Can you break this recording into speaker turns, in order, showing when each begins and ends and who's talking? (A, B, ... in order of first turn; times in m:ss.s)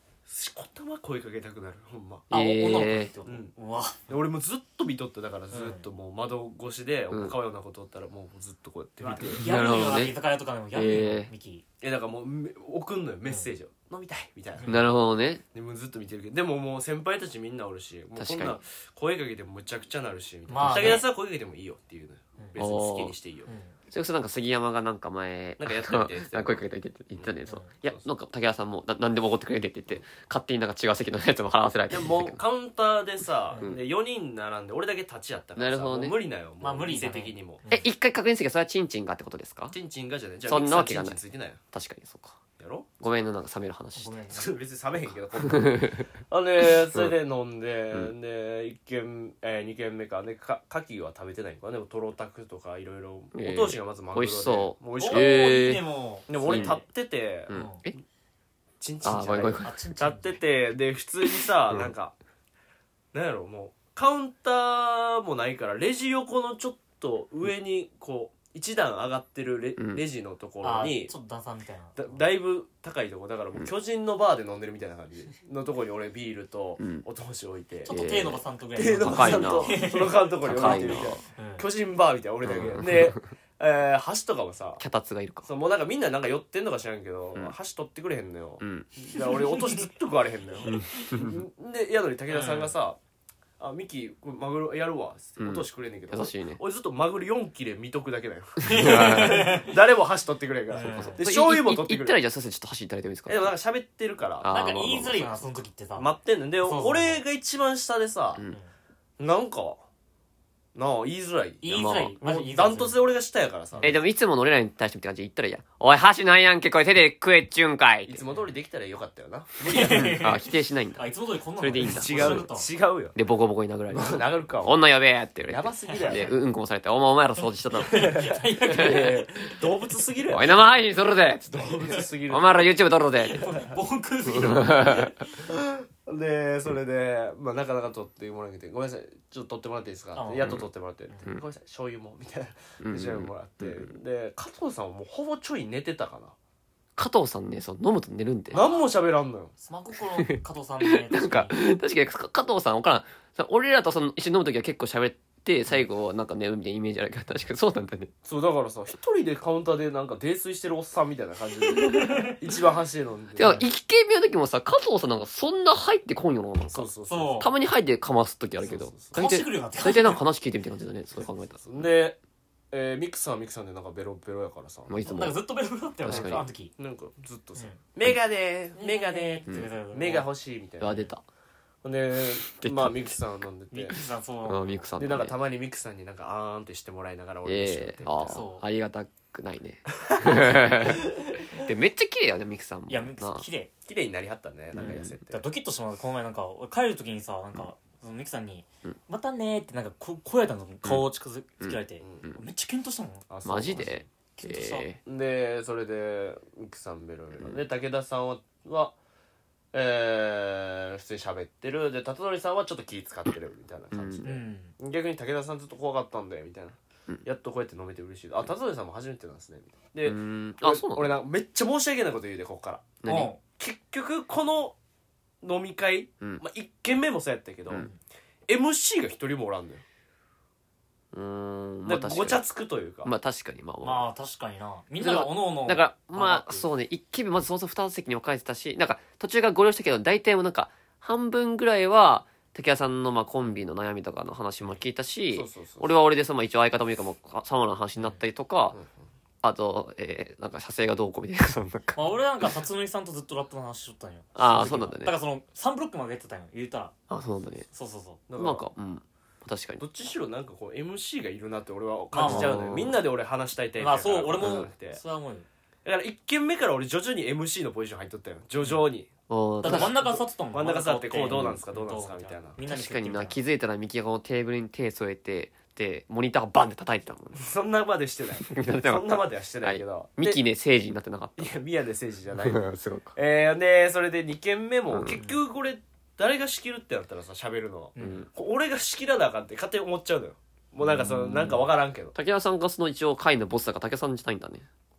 0:00.2-0:02.3 A
0:02.3-0:03.1 B
0:02.3-0:04.1 C
0:03.2-0:03.5 A
0:04.1-0:09.5 A
0:05.5-0:05.8 C
0:09.0-0:11.6 C
0:09.4-0:10.2 B
0:10.7-0:11.3 B
0:11.8-0:14.8 A
0:14.6-0:14.8 C
0:14.7-0:15.4 B
0:15.5-0:23.5 A
0:18.2-0:18.6 B
0:20.5-0:21.0 C
0:20.6-0:21.0 B
0:22.6-0:23.1 B
0:23.4-0:23.7 C
0:23.9-0:32.4 B
0:25.6-0:27.3 A
0:27.4-0:27.7 C
0:31.9-0:37.6 A
0:35.6-0:36.2 B
0:36.6-0:37.8 C
0:37.7-0:39.8 B
0:39.7-0:41.6 A
0:40.5-0:41.2 B
0:41.7-0:42.4 B
0:42.6-0:42.9 A
0:43.0-0:44.2 B
0:44.0-0:44.5 C
0:44.3-0:55.4 A
0:45.5-0:46.1 B
0:53.3-0:55.8 B
0:55.0-0:56.8 C
0:56.3-0:57.5 A
0:56.4-0:56.8 B
0:57.5-0:57.9 B
0:57.5-0:57.8 C
0:58.8-1:02.1 A
0:59.0-0:59.7 B
0:59.6-1:00.4 C
1:03.1-1:11.1 A
1:09.8-1:10.0 B
1:10.6-1:12.2 C
1:12.0-1:18.0 A
1:16.8-1:17.0 B
1:17.8-1:21.6 C
1:17.9-1:19.8 B
1:18.8-1:24.8 A
1:20.4-1:21.2 B
1:22.4-1:23.2 B
1:24.8-1:25.5 B
1:25.4-1:33.0 A
1:28.6-1:28.9 B
1:30.7-1:31.4 B
1:32.3-1:32.7 C
1:33.6-1:42.2 A
1:35.4-1:36.6 B
1:38.6-1:39.7 C
1:38.6-1:39.6 B
1:40.7-1:41.2 C
1:41.0-1:43.5 B
1:43.3-1:44.6 A
1:44.4-1:45.6 B
1:44.5-1:47.2 C
1:46.0-1:48.4 A
1:49.2-1:49.8 A
1:50.7-1:51.7 A
1:51.6-1:53.0 C
1:51.7-1:52.1 B
1:52.2-1:54.0 A
1:53.7-1:54.0 C
1:53.8-1:58.2 B
1:58.0-2:00.3 A
1:59.7-2:00.4 C
1:59.8-2:01.0 B
2:01.0-2:02.7 C
2:01.6-2:02.5 B
2:01.8-2:03.2 A
2:03.1-2:09.1 B
2:03.9-2:04.8 A
2:05.5-2:06.3 A
2:07.8-2:09.7 C
2:07.8-2:10.6 A
2:10.3-2:13.4 B
2:11.5-2:12.7 A
2:13.2-2:15.3 C
2:14.3-2:15.1 B
2:15.4-2:26.3 A
2:20.2-2:20.6 C
2:22.8-2:23.9 B
2:27.0-2:28.7 B
2:28.5-2:29.5 A
2:29.6-2:31.6 C
2:30.2-2:38.1 B
2:38.2-2:43.6 A
2:41.6-2:42.4 C
2:43.4-2:51.7 B
2:46.7-2:47.5 A
2:47.1-2:47.5 C
2:48.6-2:49.2 A
2:49.1-2:50.2 C
2:51.6-2:52.2 A
2:52.7-2:54.9 A
2:54.9-2:55.4 B
2:55.0-2:56.7 C
2:56.0-2:56.4 B
2:56.0-3:01.0 A
2:58.7-3:00.3 C
3:00.8-3:01.2 B
3:00.8-3:01.1 C
3:01.8-3:04.0 A
3:02.5-3:03.2 B
3:03.7-3:04.9 C
3:04.4-3:05.3 B
3:05.0-3:08.4 A
3:07.4-3:13.4 B
3:08.3-3:08.6 C
3:10.0-3:11.0 A
3:12.9-3:13.7 C
3:13.9-3:15.4 A
3:14.7-3:15.1 B
3:14.7-3:23.3 C
3:21.6-3:22.4 B
3:22.0-3:22.3 A
3:23.3-3:24.1 A
3:23.4-3:25.0 B
3:24.3-3:24.9 C
3:25.0-3:29.0 A
3:29.7-3:44.8 A
3:33.9-3:34.2 B
3:34.2-3:34.7 C
3:40.0-3:41.1 B
3:43.0-3:43.3 B
3:43.0-3:43.4 C
3:45.4-3:47.9 A
3:48.5-3:49.8 A
3:51.1-3:52.4 B
3:51.8-3:53.1 A
3:53.0-3:54.0 B
3:53.8-3:56.6 C
3:55.0-4:08.8 B
4:05.3-4:05.9 A
4:09.4-4:12.5 B
4:11.9-4:16.9 C
4:14.4-4:15.1 B
4:17.1-4:17.7 B
4:17.7-4:18.2 C
4:18.3-4:18.6 A
4:18.4-4:19.8 B
4:19.8-4:25.0 A
4:22.1-4:22.6 C
4:22.2-4:22.9 B
4:23.8-4:25.5 C
4:24.4-4:24.7 B
4:25.8-4:29.1 A
4:29.3-4:29.9 B
4:29.6-4:32.6 A
4:29.6-4:33.4 C
4:31.3-4:31.6 B
4:32.7-4:37.4 B
4:37.3-4:40.4 A
4:38.4-4:41.5 B
4:41.4-4:52.1 A
4:42.4-4:43.1 B
4:44.9-4:45.2 B
4:45.1-4:45.4 C
4:48.0-4:48.2 C
4:48.0-4:48.3 B
4:50.8-4:54.7 B